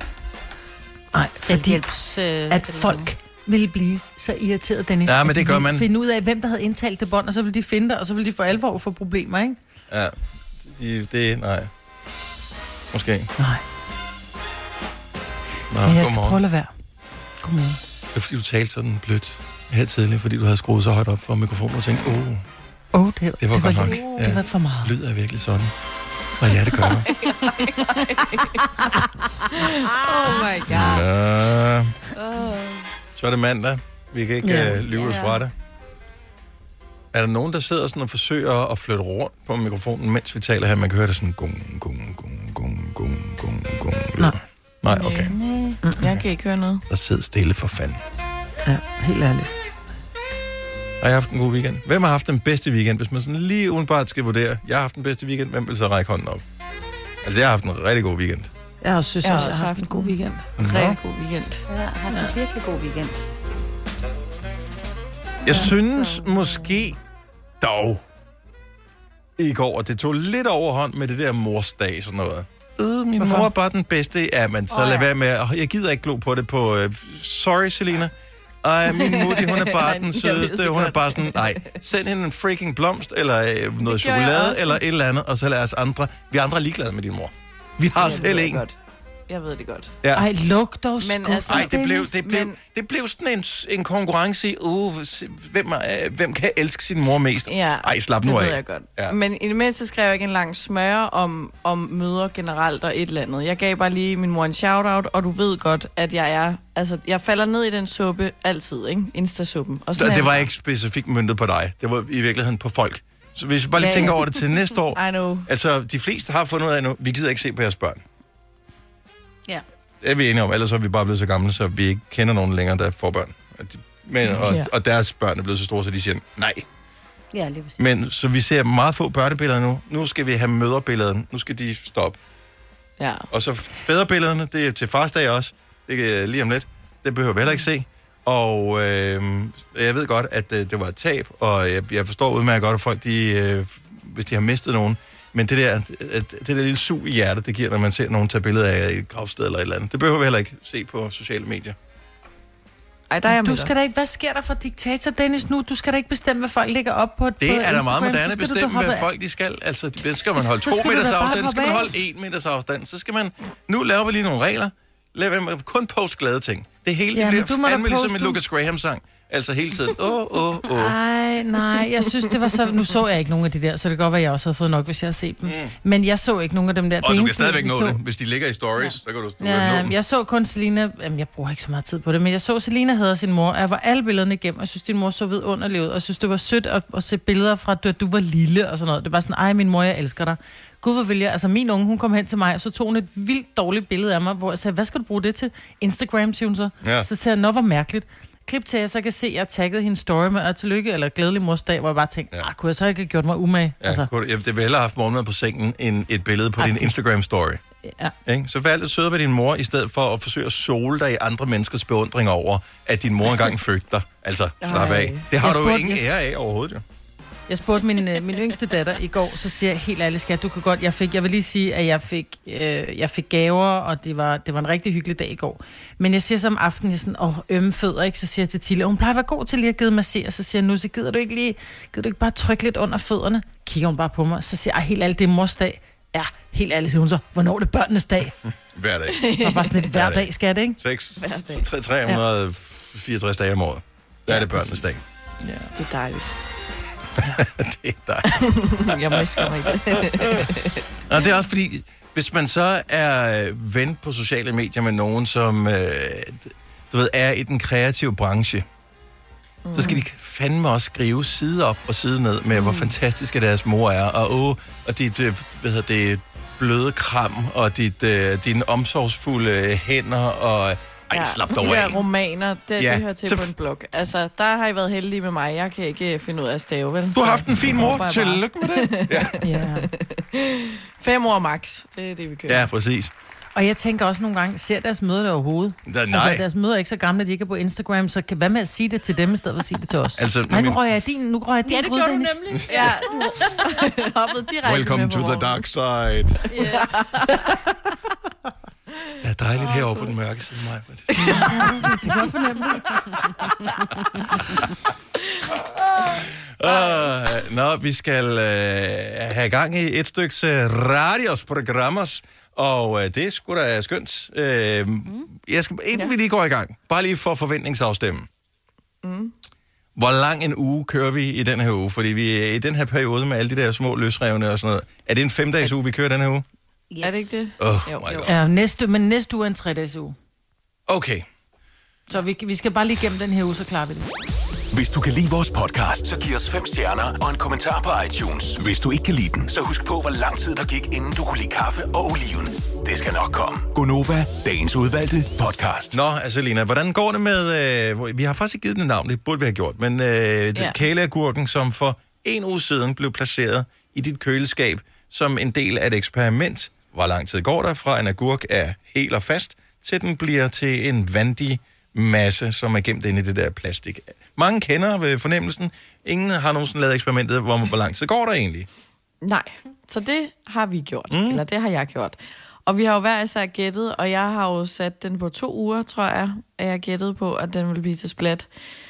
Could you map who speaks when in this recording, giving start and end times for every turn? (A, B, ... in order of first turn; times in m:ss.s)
0:01.1-0:01.8 A
0:01.4-0:03.1 B
0:02.5-0:09.6 A
0:05.0-0:05.9 C
0:09.9-0:11.7 C
0:12.9-0:13.3 C
0:13.4-0:13.6 A
0:15.7-0:16.4 C
0:15.8-0:16.7 A
0:17.4-0:17.8 A
0:18.1-0:22.4 C
0:22.9-0:24.9 A
0:23.4-0:25.7 C
0:26.4-0:27.1 C
0:27.0-0:28.7 D
0:29.5-0:31.0 D
0:30.7-0:32.0 C
0:32.1-0:32.8 D
0:33.2-0:35.5 C
0:34.9-0:35.2 B
0:37.1-0:45.3 C
0:44.9-0:46.8 D
0:46.9-0:48.0 C
0:48.6-0:49.5 A
0:51.0-0:56.4 C
0:57.2-0:58.5 C
0:58.8-1:00.5 A
0:59.2-1:01.6 D
1:00.6-1:01.0 C
1:01.7-1:03.2 B
1:05.4-1:07.0 C
1:07.6-1:08.0 C
1:09.4-1:28.6 C
1:13.2-1:13.5 A
1:18.8-1:21.7 D
1:23.8-1:24.8 D
1:27.9-1:28.8 D
1:29.3-1:29.9 D
1:30.0-1:30.3 C
1:30.1-1:32.0 A
1:31.0-1:32.6 D
1:31.5-1:39.2 C
1:37.5-1:50.4 D
1:50.0-1:58.0 C
1:53.8-1:54.2 D
1:54.9-1:55.5 D
2:00.0-2:06.6 C
2:04.3-2:04.7 D
2:07.3-2:07.8 B
2:07.8-2:12.2 C
2:13.0-2:13.3 D
2:13.3-2:31.8 C
2:33.1-2:33.7 D
2:33.3-2:39.1 A
2:37.4-2:51.0 C
2:40.6-2:41.9 A
2:47.1-2:48.4 A
2:50.7-2:58.0 A
2:55.4-2:55.7 C
2:57.0-2:59.9 C
2:59.4-3:24.1 A
3:16.8-3:17.1 C
3:23.8-3:27.6 C
3:26.6-3:26.9 A
3:28.2-3:36.8 C
3:34.6-3:35.2 D
3:35.4-3:36.0 A
3:37.5-3:58.4 A
3:58.7-3:59.2 C
3:59.1-3:59.8 D
3:59.4-4:00.8 A
3:59.9-4:00.3 C
4:00.8-4:05.0 C
4:01.2-4:01.7 D
4:04.3-4:04.8 D
4:05.4-4:06.3 D
4:07.2-4:10.5 C
4:08.3-4:10.8 D
4:11.1-4:18.6 C
4:19.6-4:20.0 D
4:19.7-4:32.0 C
4:22.5-4:22.9 B
4:31.1-4:42.7 D
4:32.8-4:33.5 C
4:37.1-4:39.4 C
4:39.4-4:39.9 A
4:42.5-4:43.1 C
4:43.6-4:52.4 A
4:45.8-4:46.4 C
4:50.2-4:50.8 C
4:51.6-4:53.8 B
4:52.7-4:55.6 D
4:54.6-4:56.4 C
4:56.5-4:57.3 B
4:56.5-4:57.5 D
4:59.2-5:01.9 C
4:59.6-5:00.1 D
5:01.2-5:02.8 D
5:01.3-5:02.8 A
5:05.4-5:07.0 D
5:06.6-5:18.3 C
5:19.0-5:19.3 D
5:20.0-5:26.4 C
5:26.9-5:27.3 B
5:27.0-5:28.2 D
5:27.6-5:28.3 C
5:28.2-5:30.2 A
5:30.9-5:31.2 C
5:32.1-5:34.1 A
5:34.7-5:46.0 E
5:45.9-6:08.7 C
6:09.2-6:18.5 D
6:11.1-6:11.4 C